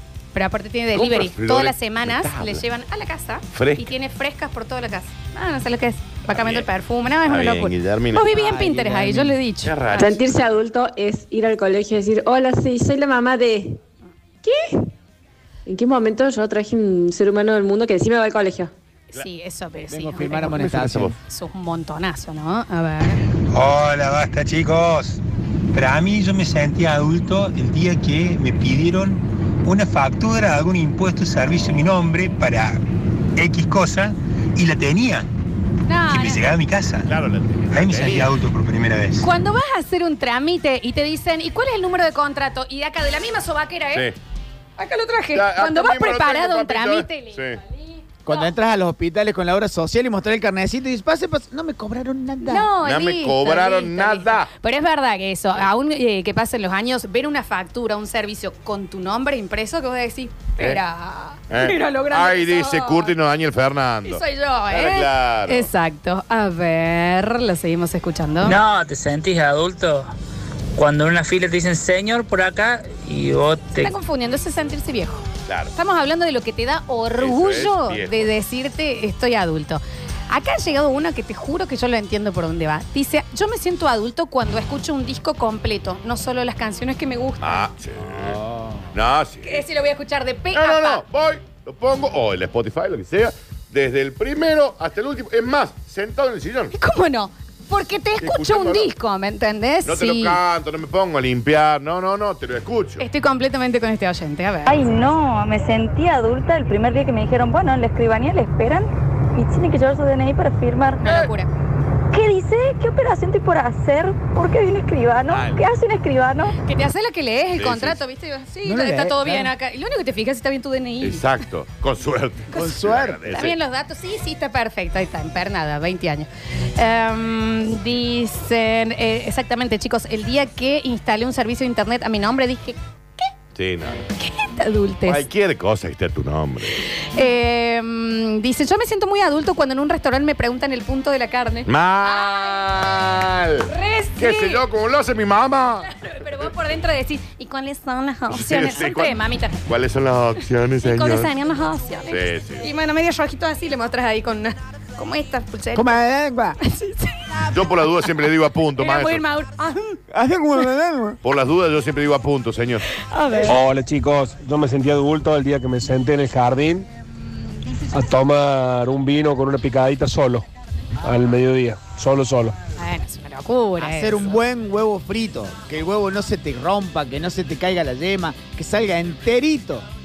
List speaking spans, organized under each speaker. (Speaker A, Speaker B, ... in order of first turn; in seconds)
Speaker A: 0.3-10.2, 19.1-23.2, 35.9-36.5, 39.2-44.1, 44.8-48.5, 52.4-63.1, 64.0-68.5, 73.8-87.6, 89.4-91.0, 96.7-100.4, 103.0-104.9, 111.0-111.5, 116.6-121.2, 123.3-133.3, 134.2-135.2, 136.9-143.0, 143.6-144.6, 145.8-149.6, 150.8-156.0, 156.6-160.0, 162.9-163.6, 172.8-174.3
Speaker B: 0.9-2.6, 3.5-3.9, 6.3-6.7, 7.2-8.4, 9.6-10.2, 20.4-21.2, 37.0-38.3, 45.3-47.6, 52.8-54.5, 61.5-65.7, 75.5-75.7, 77.2-78.3, 87.4-89.7, 90.5-96.7, 98.2-98.9, 99.8-103.0, 111.0-111.3, 115.3-115.7, 117.5-118.0, 121.0-123.6, 133.5-134.1, 135.1-136.9, 141.7-145.9, 148.3-151.3, 152.1-152.7, 157.5-159.2, 161.2-162.8
Speaker C: 8.2-9.4, 19.9-21.1, 48.2-52.7, 88.3-88.8, 118.6-119.5, 122.5-123.2, 155.7-156.6, 160.1-161.2, 173.8-179.8
Speaker D: 9.9-13.8, 15.7-18.7
Speaker E: 23.5-25.2, 25.7-32.8, 33.4-35.3, 36.1-37.1, 37.7-39.3
Speaker F: 68.4-70.1, 70.7-73.9
Speaker G: 104.7-111.0, 112.1-116.5
Speaker H: 163.4-166.8, 167.9-170.4, 171.0-172.6